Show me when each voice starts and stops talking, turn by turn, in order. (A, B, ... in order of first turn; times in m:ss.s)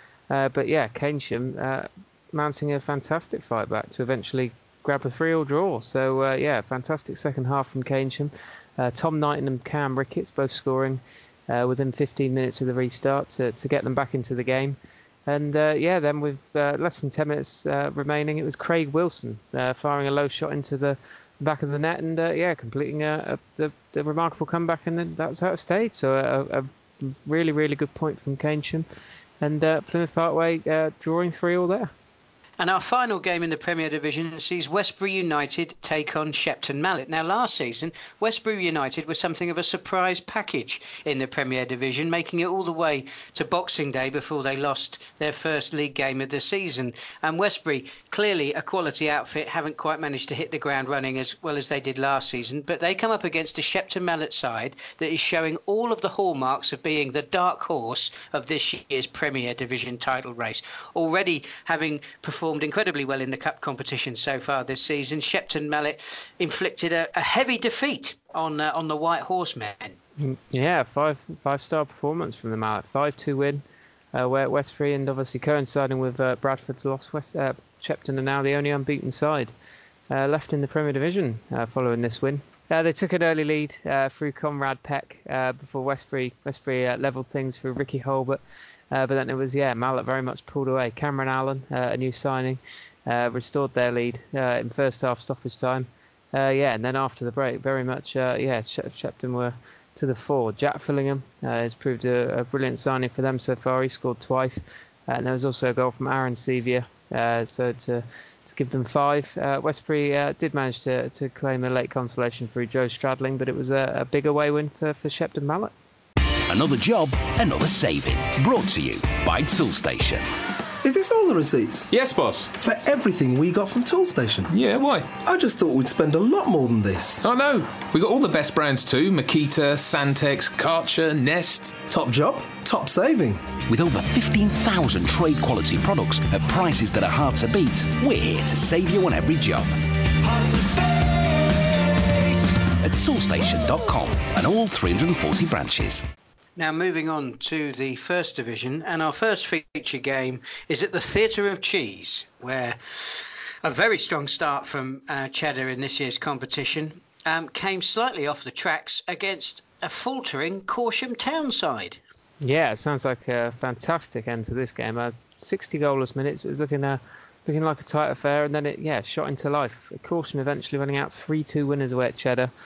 0:00.3-0:28.9 A
0:29.4-0:31.9 A
0:32.6-1:10.0 B
1:10.2-1:19.5 A
1:20.1-1:55.7 A
1:56.5-2:00.3 C
2:00.8-2:01.9 D
2:01.9-2:02.5 E
2:02.6-2:04.5 D
2:04.5-2:05.1 E
2:05.2-2:07.2 D
2:07.2-2:11.8 E
2:11.9-2:13.5 D
2:13.7-2:19.7 C
2:22.8-2:26.0 C
2:26.6-2:42.0 B
2:42.4-2:52.5 A